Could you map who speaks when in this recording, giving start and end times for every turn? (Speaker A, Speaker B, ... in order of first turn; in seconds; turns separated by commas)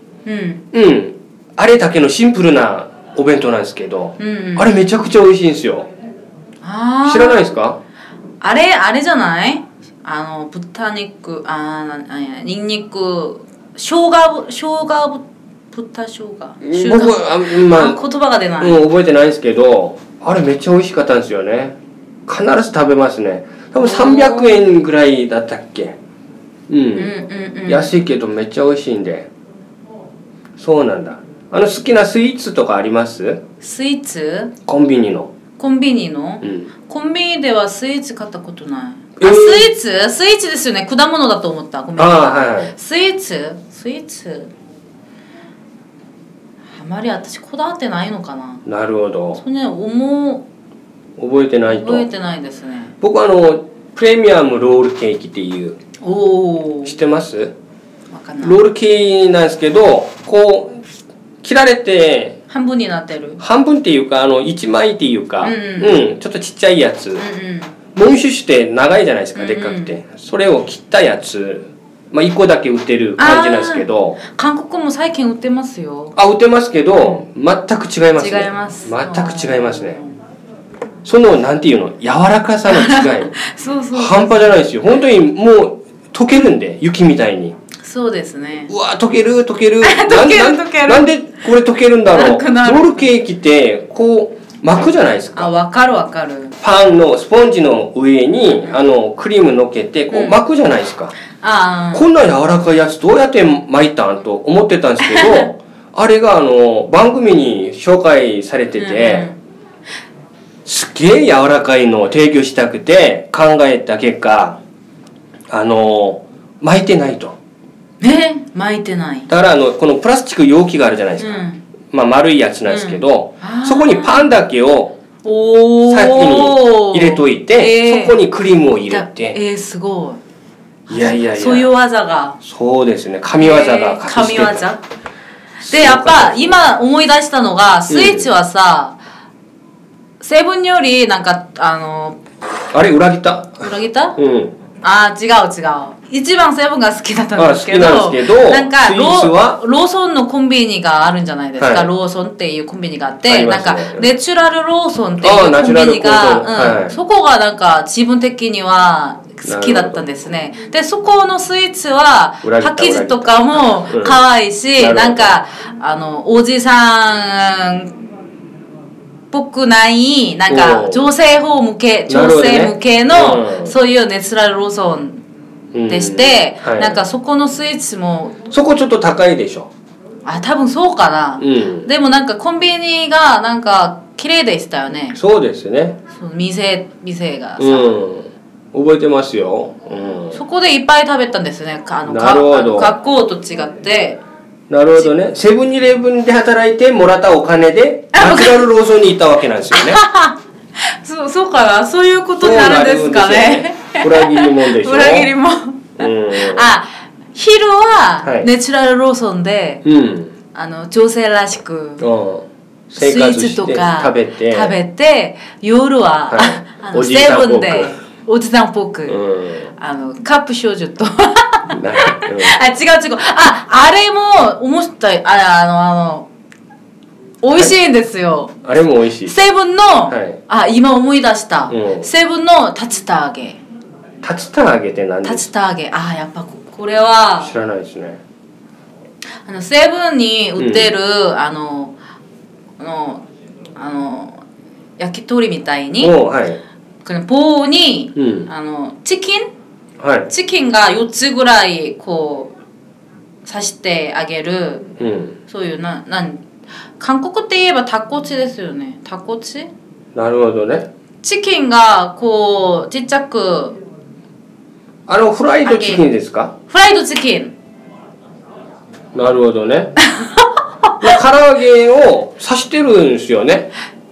Speaker A: 0.2-0.6, Speaker B: 0.7-5.9, Speaker A: 4.2-4.7, Speaker A: 6.6-7.5, Speaker B: 7.0-7.8, Speaker A: 8.4-18.8, Speaker B: 16.6-18.0, Speaker B: 18.6-21.8, Speaker B: 22.3-26.0, Speaker A: 23.8-24.6, Speaker B: 26.7-27.1, Speaker A: 26.9-27.9, Speaker B: 27.7-29.3, Speaker B: 30.6-33.4, Speaker A: 33.6-34.5, Speaker B: 34.6-35.3, Speaker A: 35.6-44.5, Speaker B: 36.4-36.7, Speaker B: 39.2-39.7, Speaker B: 42.0-42.7, Speaker A: 46.8-48.6, Speaker B: 48.6-49.4, Speaker A: 49.3-50.5, Speaker B: 51.2-52.1, Speaker A: 51.7-52.9, Speaker B: 53.0-55.8, Speaker A: 56.0-56.9, Speaker B: 56.8-57.5, Speaker A: 58.1-58.6, Speaker B: 58.4-60.8, Speaker B: 61.4-62.4, Speaker A: 62.5-63.4, Speaker B: 63.4-67.2, Speaker A: 65.4-66.0, Speaker A: 67.2-67.7, Speaker B: 67.9-74.2, Speaker A: 69.3-70.0, Speaker A: 73.2-76.1, Speaker B: 76.1-80.0, Speaker A: 78.2-80.1, Speaker B: 81.0-83.3, Speaker A: 82.7-84.6, Speaker B: 83.9-87.5, Speaker A: 87.8-88.7, Speaker B: 88.7-95.5, Speaker A: 89.8-91.2, Speaker A: 92.1-93.1, Speaker A: 95.3-96.5, Speaker B: 96.6-101.1, Speaker A: 100.1-100.4, Speaker A: 101.4-102.0, Speaker B: 101.9-109.3, Speaker A: 105.0-105.5, Speaker A: 108.8-109.4, Speaker B: 110.6-114.6, Speaker B: 115.5-117.4, Speaker A: 118.0-119.3, Speaker B: 119.3-121.4, Speaker A: 121.2-121.6, Speaker B: 121.9-125.0, Speaker A: 122.7-124.3, Speaker A: 125.2-128.2, Speaker B: 125.8-129.4, Speaker A: 128.9-130.2, Speaker A: 130.9-132.4, Speaker B: 130.9-131.7, Speaker B: 132.4-134.7, Speaker A: 133.4-134.8, Speaker B: 135.6-136.7, Speaker A: 135.7-139.0, Speaker B: 137.9-138.3, Speaker A: 140.2-142.2, Speaker B: 142.7-144.5, Speaker A: 143.6-144.2, Speaker A: 144.8-167.9, Speaker B: 147.4-149.6, Speaker B: 151.6-151.9, Speaker B: 153.3-154.1, Speaker B: 155.2-156.9, Speaker B: 159.4-160.0, Speaker B: 162.4-164.2, Speaker B: 164.8-165.4, Speaker A: 169.3-175.2, Speaker B: 170.5-171.1, Speaker B: 172.1-173.8, Speaker B: 175.7-177.0, Speaker A: 175.9-178.4, Speaker B: 178.5-179.7, Speaker A: 180.2-185.2, Speaker B: 181.4-181.9, Speaker B: 185.1-186.0, Speaker A: 186.1-187.9, Speaker B: 187.6-190.4, Speaker A: 190.3-194.2, Speaker B: 192.1-192.9, Speaker B: 194.7-200.0, Speaker A: 198.1-198.6, Speaker A: 199.7-209.8, Speaker B: 202.4-205.3, Speaker B: 206.0-206.7, Speaker B: 209.8-210.3, Speaker A: 210.5-212.1, Speaker B: 212.0-214.8, Speaker A: 212.9-219.2, Speaker B: 216.3-217.9, Speaker B: 219.1-219.7, Speaker A: 219.8-226.3, Speaker B: 221.7-222.6, Speaker A: 227.4-228.6, Speaker B: 228.6-229.4, Speaker A: 229.2-233.6, Speaker B: 230.1-230.4, Speaker B: 231.7-232.1, Speaker B: 234.2-235.5, Speaker A: 235.2-237.5, Speaker B: 237.4-238.2, Speaker A: 239.4-241.9, Speaker B: 240.6-240.9, Speaker A: 242.8-243.2, Speaker A: 243.8-244.4, Speaker A: 245.0-246.1, Speaker B: 246.0-246.6, Speaker A: 247.0-249.5, Speaker B: 248.2-248.5, Speaker B: 250.0-250.3, Speaker A: 250.3-252.5, Speaker A: 253.4-254.9, Speaker B: 255.0-255.4, Speaker A: 255.5-256.4, Speaker A: 257.0-259.7, Speaker B: 260.1-260.9, Speaker A: 261.2-263.8, Speaker B: 265.1-266.5, Speaker A: 265.6-266.1, Speaker A: 266.7-267.5, Speaker B: 269.1-269.9, Speaker A: 270.0-270.5, Speaker B: 271.0-273.7